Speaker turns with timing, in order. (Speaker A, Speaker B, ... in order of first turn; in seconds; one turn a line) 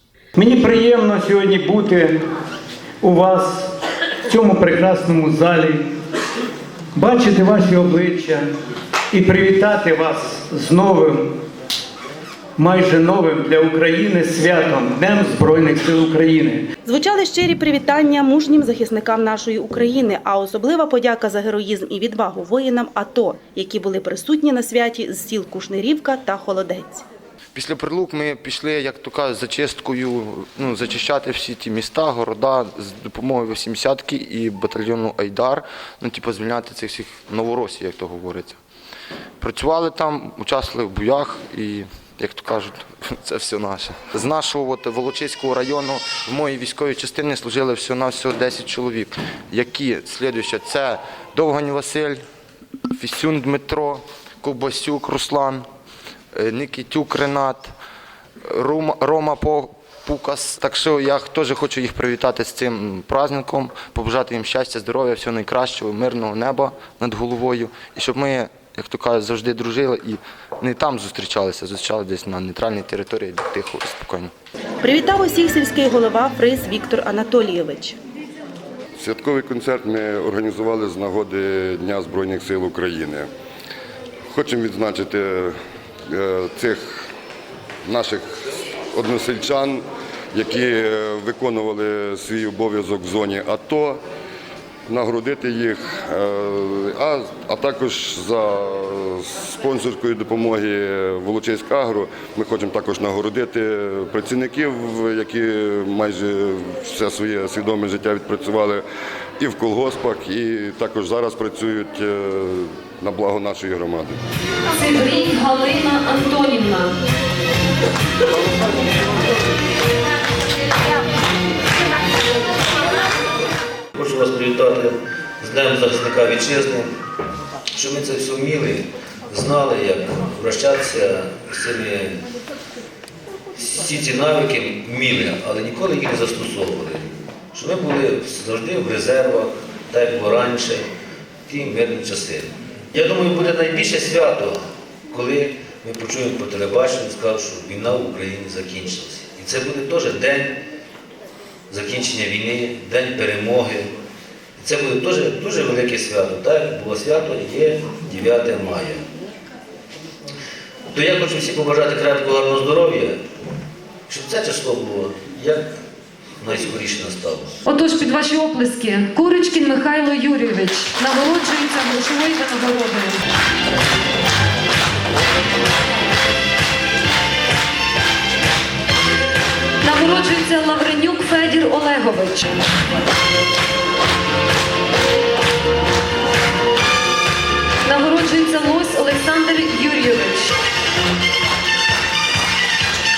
Speaker A: 0.3-2.2
Speaker A: 3.0-3.7
Speaker A: 4.3-5.8
Speaker A: 6.9-8.4
Speaker A: 9.1-11.3
Speaker A: 12.6-16.6
Speaker B: 16.9-27.0
Speaker C: 27.5-38.6
Speaker C: 39.4-52.2
Speaker C: 52.9-55.6
Speaker C: 56.3-57.7
Speaker C: 58.4-74.3
Speaker B: 74.8-78.0
Speaker D: 79.0-83.3
Speaker D: 84.3-85.5
Speaker D: 86.1-87.1
Speaker D: 87.8-94.0
Speaker D: 94.9-108.8
Speaker D: 109.4-114.2
Speaker E: 114.7-116.9
Speaker F: 123.9-126.9
Speaker F: 127.7-132.2
Speaker F: 133.5-140.9
Speaker F: 141.5-150.6
Speaker F: 151.7-153.9
Speaker F: 154.6-159.0
Speaker F: 160.9-163.2
Speaker F: 164.1-165.7
Speaker F: 166.4-167.6
Speaker E: 167.6-173.2
Speaker E: 179.8-182.6
Speaker E: 187.8-190.5